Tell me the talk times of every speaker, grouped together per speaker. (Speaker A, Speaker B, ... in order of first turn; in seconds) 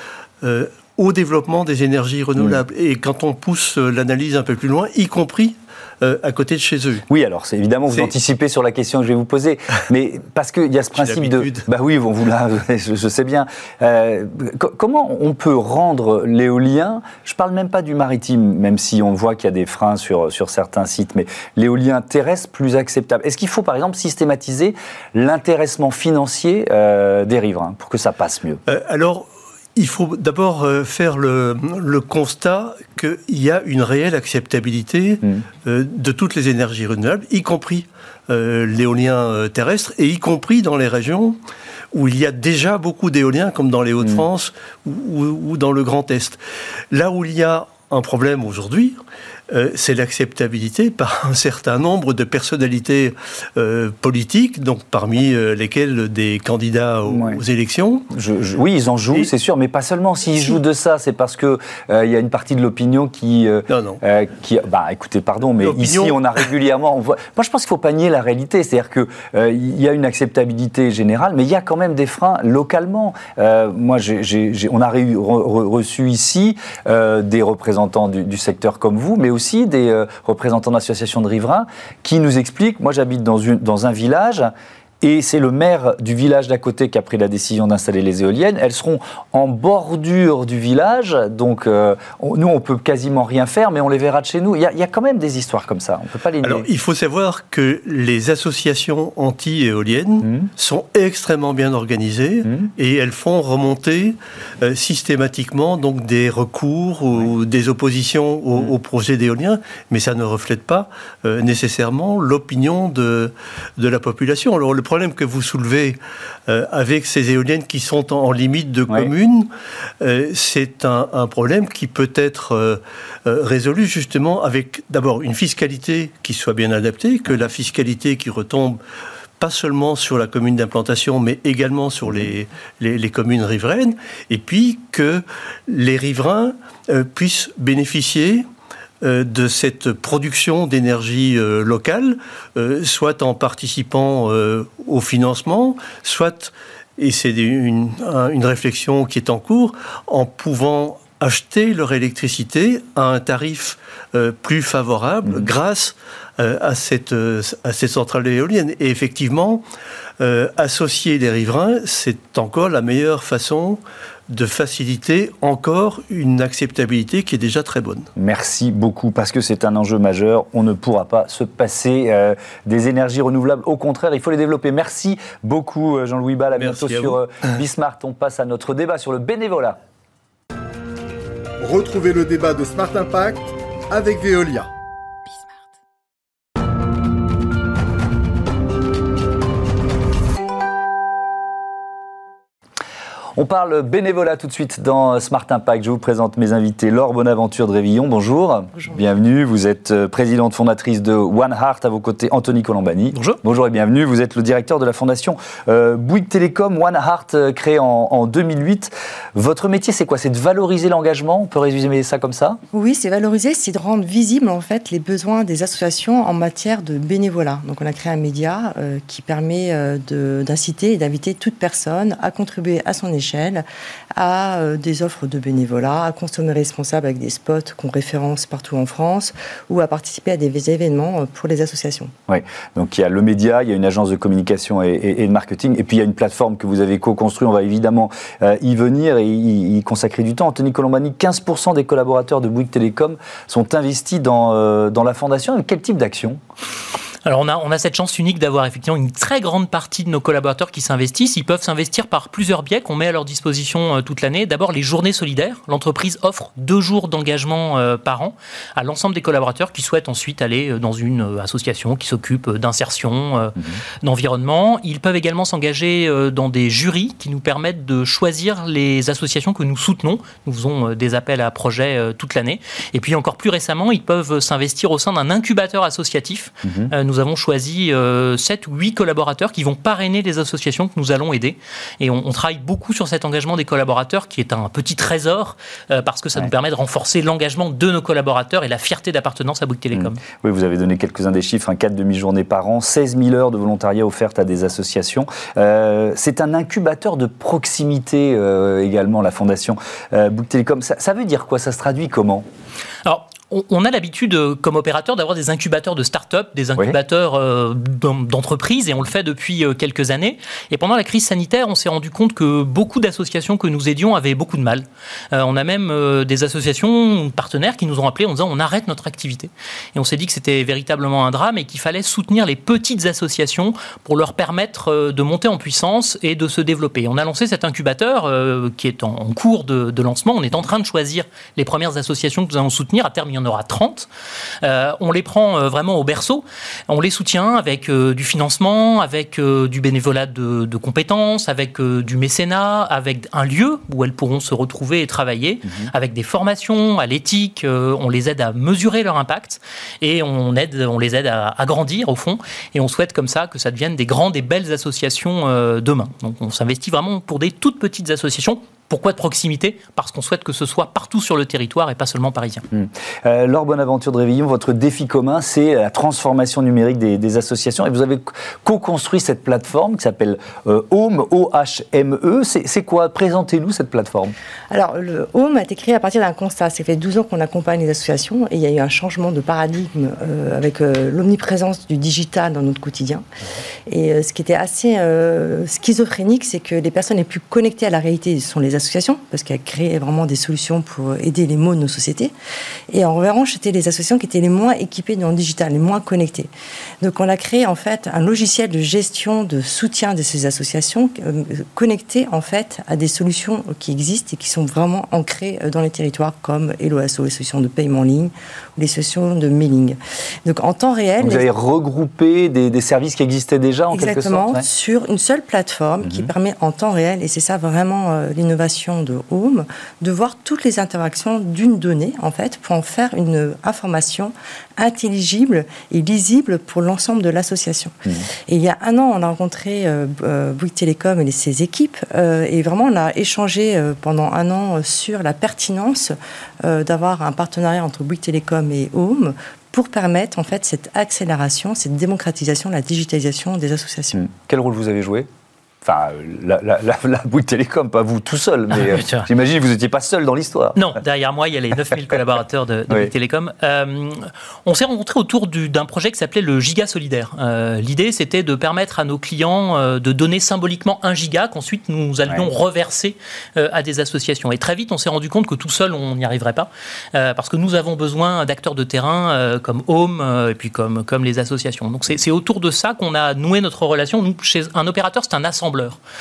Speaker A: 0.4-7.1, 11.0-11.7, 28.7-41.4, 41.9-46.4, 46.9-49.0, 49.5-58.1, 63.7-64.0, 65.6-66.4, 96.4-119.5, 120.0-128.8, 129.4-138.4, 139.0-159.6, 160.2-168.1, 176.6-177.2
Speaker B: 7.1-28.6, 57.1-57.4, 58.1-84.5, 85.0-96.7, 100.2-100.5, 168.2-179.8, 193.4-212.6, 232.3-246.4, 276.6-276.9, 289.9-302.4, 345.6-345.9, 362.7-374.3, 411.2-414.7, 416.0-416.3, 444.1-445.3, 445.8-450.9
Speaker C: 181.6-184.7
Speaker D: 212.7-232.1, 374.7-383.2, 383.9-392.3, 392.9-396.5, 397.0-411.4, 413.9-444.2
Speaker E: 247.3-290.2, 303.1-334.1, 334.6-362.6, 448.7-449.3, 450.8-476.0